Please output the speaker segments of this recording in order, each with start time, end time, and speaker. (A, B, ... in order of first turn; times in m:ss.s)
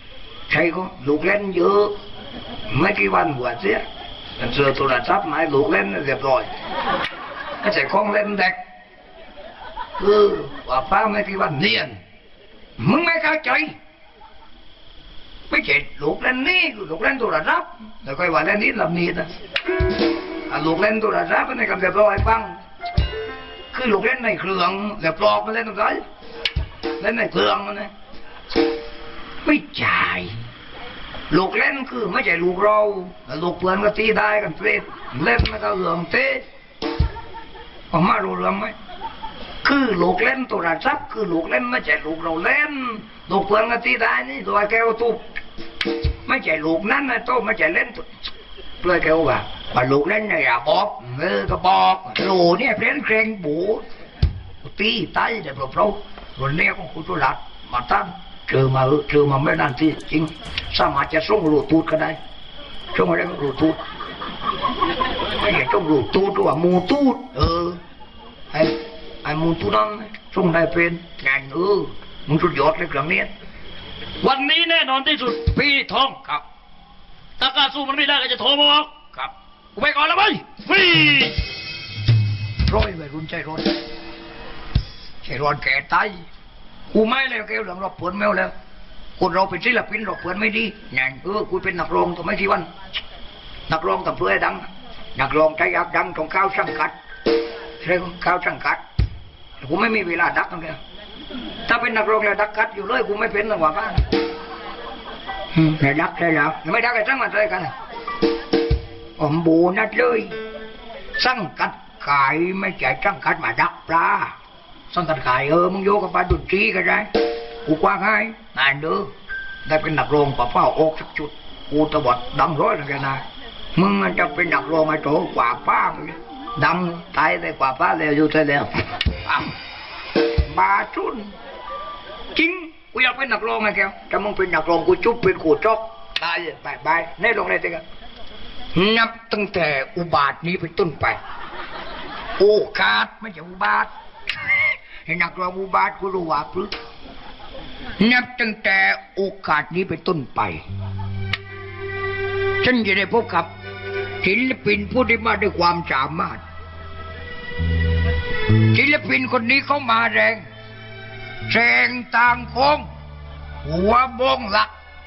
0:00.5-0:01.9 A
0:02.7-0:03.8 A
0:04.4-0:06.5 A
0:07.6-0:08.6 A
0:10.0-0:12.0 A
0:12.8-0:13.8 A
0:15.5-0:19.3 A
0:20.5-0:22.6 A
0:23.7-0:26.0 A
0:27.0-0:27.9 A
0:29.4-0:30.4 A
0:31.3-0:36.4 A
0:37.9-0:38.8 A
0:39.6-0:45.3 A
0:46.2-0:48.1 A
0:48.8-0:53.8 A
0:54.6-1:02.2 A
1:02.9-1:03.8 A
1:05.4-1:07.8 A
1:08.5-1:13.3 A
1:14.2-1:15.5 B
1:15.4-1:16.4 A
1:17.4-1:18.9 B
1:19.1-1:20.1 A
1:19.8-1:21.4 B
1:22.6-1:23.7 A
1:25.2-1:26.2 A
1:26.9-1:28.5 A
1:29.2-1:32.7 A
1:33.7-1:37.0 A
1:37.8-1:38.8 A
1:39.6-1:40.8 A
1:41.7-1:44.0 A
1:45.5-1:47.7 A
1:49.2-1:50.4 A
1:51.2-1:54.3 A
1:54.9-1:57.1 A
1:57.6-1:59.1 A
1:59.6-2:03.2 A
2:03.8-2:09.5 A
2:10.4-2:11.3 A
2:12.3-2:17.8 A
2:18.7-2:21.2 A
2:22.4-2:26.7 A
2:28.0-2:30.6 A
2:32.6-2:33.5 A
2:34.2-2:36.4 A
2:38.6-2:40.4 A
2:41.5-2:42.9 A
2:43.6-2:44.7 A